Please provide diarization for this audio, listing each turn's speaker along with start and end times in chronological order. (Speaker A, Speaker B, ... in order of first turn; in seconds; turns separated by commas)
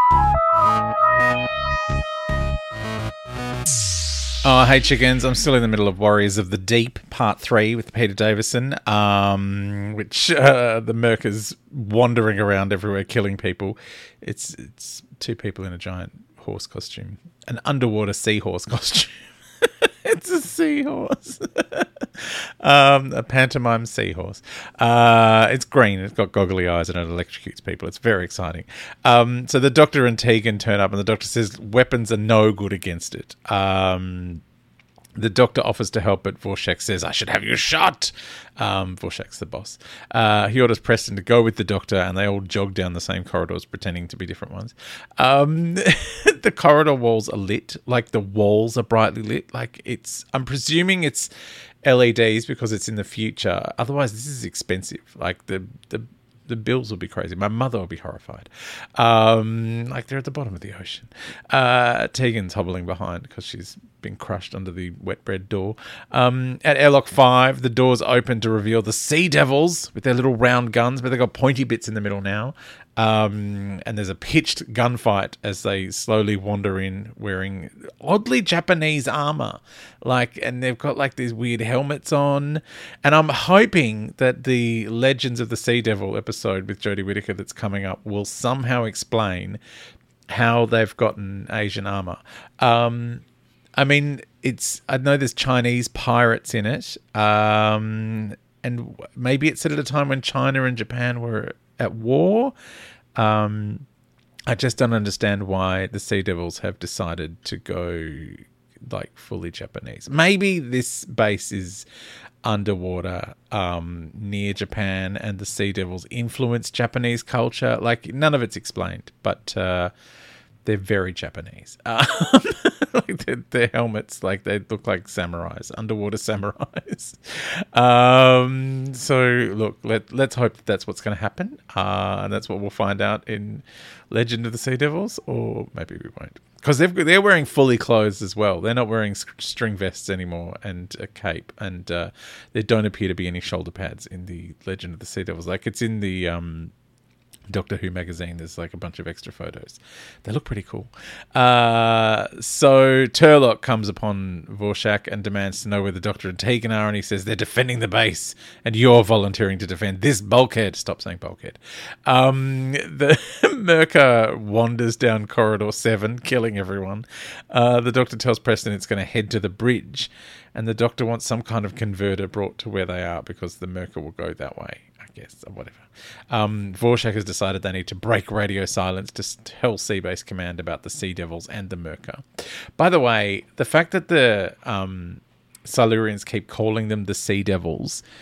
Speaker A: 4.4-34.4, Speaker A: 35.1-51.3, Speaker A: 51.8-89.6, Speaker A: 90.3-93.2, Speaker A: 93.8-102.5, Speaker A: 103.2-103.8, Speaker A: 104.5-111.8, Speaker A: 112.4-119.9, Speaker A: 120.6-146.7, Speaker A: 147.5-182.2, Speaker A: 182.8-188.0